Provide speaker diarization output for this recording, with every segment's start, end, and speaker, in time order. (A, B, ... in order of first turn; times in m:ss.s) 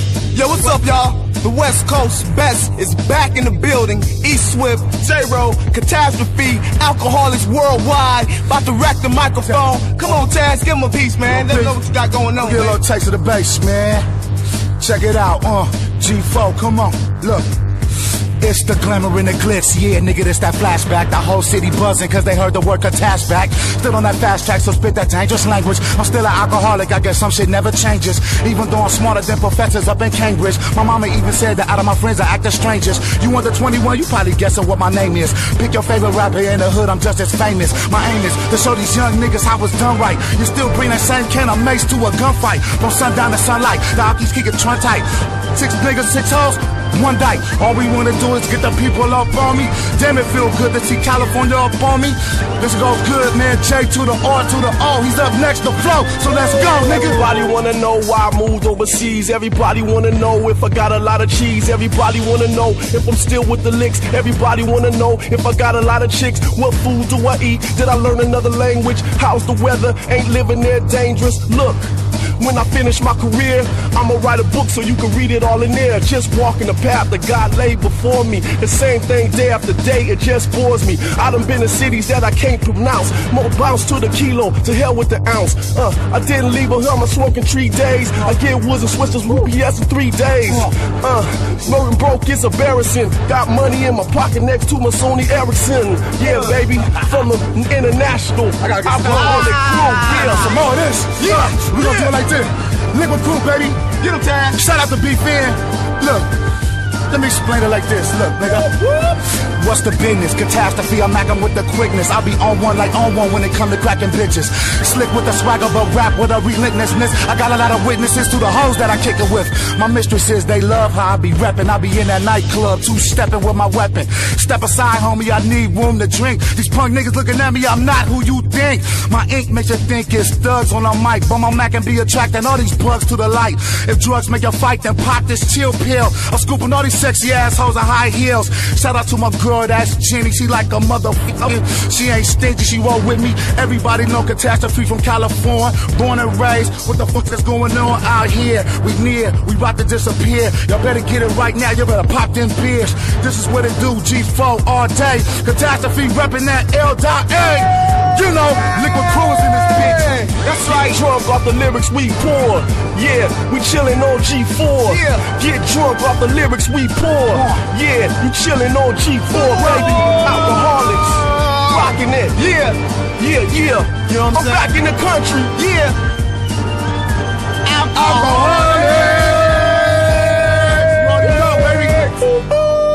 0:00.3-0:12.8 A
0:11.2-0:11.8 B
0:12.4-0:14.0 B
0:14.8-0:17.5 B
0:18.4-0:57.3 B
0:56.4-1:40.6 C
1:36.2-1:37.0 A
1:38.6-1:40.6 A
1:40.0-1:43.9 B
1:41.2-1:42.1 A
1:44.0-1:44.6 A
1:44.5-1:46.3 B
1:47.1-1:48.7 B
1:48.6-1:49.2 A
1:49.2-2:40.4 B
2:39.7-2:41.0 A
2:40.6-2:55.6 C
2:44.8-2:45.2 A
2:47.3-2:47.6 B
2:49.4-2:52.8 A
2:53.9-2:54.7 A
2:55.5-2:56.0 A
2:57.6-3:00.6 A
2:57.9-3:02.2 B
3:01.3-3:01.8 A